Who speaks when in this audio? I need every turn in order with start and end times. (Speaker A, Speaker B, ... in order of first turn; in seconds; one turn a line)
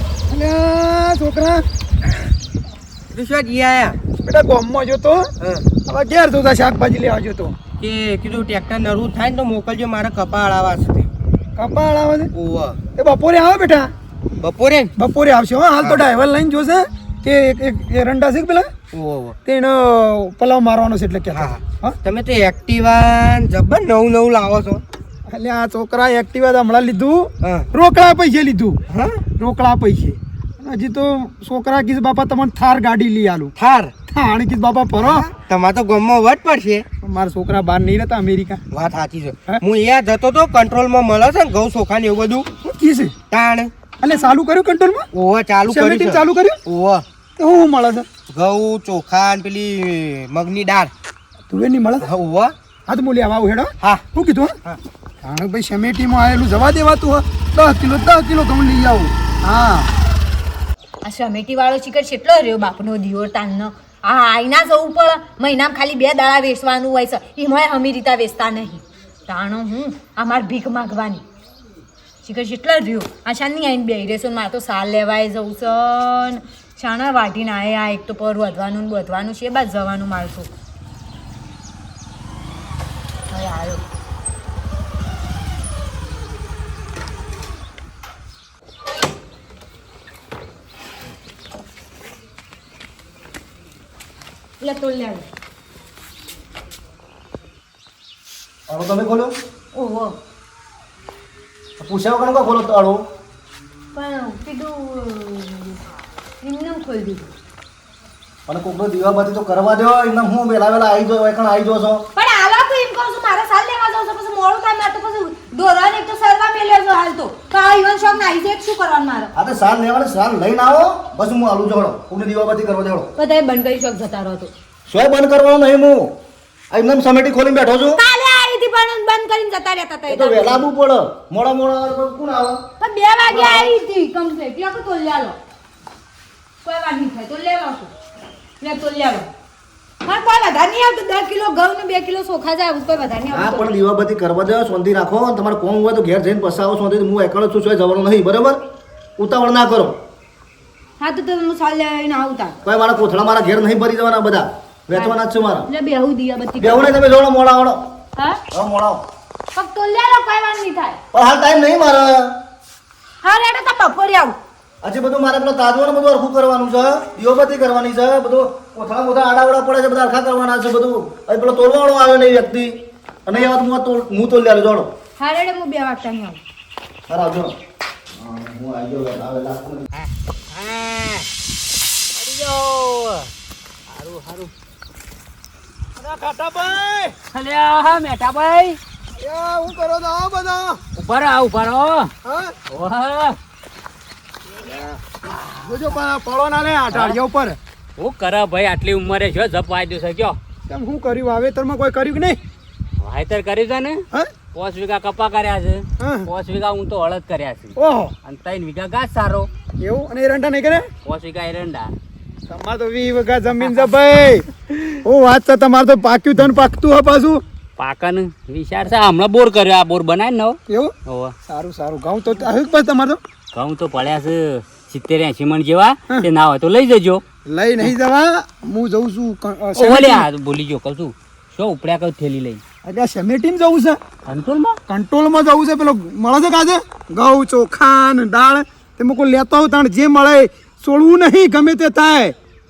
Speaker A: 0.3-1.6
Speaker B: 3.1-4.0
Speaker A: 4.2-5.2
Speaker B: 5.4-5.7
Speaker A: 5.8-7.5
Speaker B: 7.8-11.1
Speaker A: 11.6-12.3
Speaker B: 12.3-12.8
Speaker A: 12.9-13.9
Speaker B: 14.4-14.9
Speaker A: 15.0-18.7
Speaker B: 18.9-19.4
Speaker A: 19.4-21.9
Speaker B: 21.3-24.8
Speaker A: 25.3-28.8
Speaker B: 27.4-27.7
Speaker B: 28.9-29.2
Speaker A: 29.4-33.5
Speaker B: 33.5-33.9
Speaker A: 34.1-35.3
Speaker B: 35.0-36.9
Speaker A: 37.0-38.6
Speaker B: 38.7-42.5
Speaker A: 42.6-43.1
Speaker B: 43.3-43.7
Speaker A: 44.0-45.1
Speaker B: 45.1-47.0
Speaker A: 45.7-46.6
Speaker A: 47.4-48.1
Speaker B: 48.3-50.9
Speaker A: 51.5-52.1
Speaker B: 52.0-52.5
Speaker A: 52.9-54.5
Speaker A: 55.2-59.9
Speaker C: 61.0-71.2
Speaker C: 72.2-80.5
Speaker C: 83.3-83.8
Speaker C: 94.6-95.2
Speaker D: 98.7-99.3
Speaker C: 99.7-100.2
Speaker D: 101.8-103.0
Speaker C: 103.9-105.8
Speaker C: 106.4-107.3
Speaker D: 108.5-112.0
Speaker C: 112.1-119.3
Speaker D: 119.3-123.1
Speaker C: 123.2-124.5
Speaker D: 124.9-126.2
Speaker D: 126.7-128.0
Speaker C: 127.9-130.6
Speaker D: 130.1-132.6
Speaker C: 132.8-135.3
Speaker D: 133.3-133.7
Speaker C: 136.6-137.9
Speaker C: 138.6-139.3
Speaker C: 140.0-143.8
Speaker D: 143.3-148.6
Speaker D: 149.2-150.0
Speaker C: 151.0-152.6
Speaker D: 152.6-155.7
Speaker C: 154.9-156.9
Speaker D: 156.6-157.9
Speaker D: 158.5-159.0
Speaker C: 159.5-161.0
Speaker D: 161.1-162.4
Speaker C: 163.2-164.4
Speaker D: 164.8-174.9
Speaker C: 175.2-176.4
Speaker D: 177.1-177.5
Speaker D: 178.2-179.9
Speaker E: 180.0-181.2
Speaker E: 182.1-183.3
Speaker E: 183.9-184.5
Speaker A: 186.0-187.1
Speaker E: 187.3-188.8
Speaker A: 189.2-190.8
Speaker E: 190.9-192.1
Speaker A: 192.2-192.5
Speaker E: 192.7-193.4
Speaker A: 195.5-197.6
Speaker E: 196.9-197.2
Speaker E: 198.0-200.4
Speaker A: 200.7-202.4
Speaker E: 203.0-209.5
Speaker A: 206.0-206.3
Speaker A: 207.7-208.1
Speaker A: 209.8-210.9
Speaker E: 211.0-211.9
Speaker A: 212.5-217.4
Speaker E: 217.8-221.3
Speaker A: 220.7-220.9
Speaker A: 221.5-223.2
Speaker E: 223.5-227.2
Speaker A: 227.4-230.2
Speaker E: 229.8-232.6
Speaker A: 232.8-234.0
Speaker E: 234.2-234.8
Speaker A: 234.9-242.3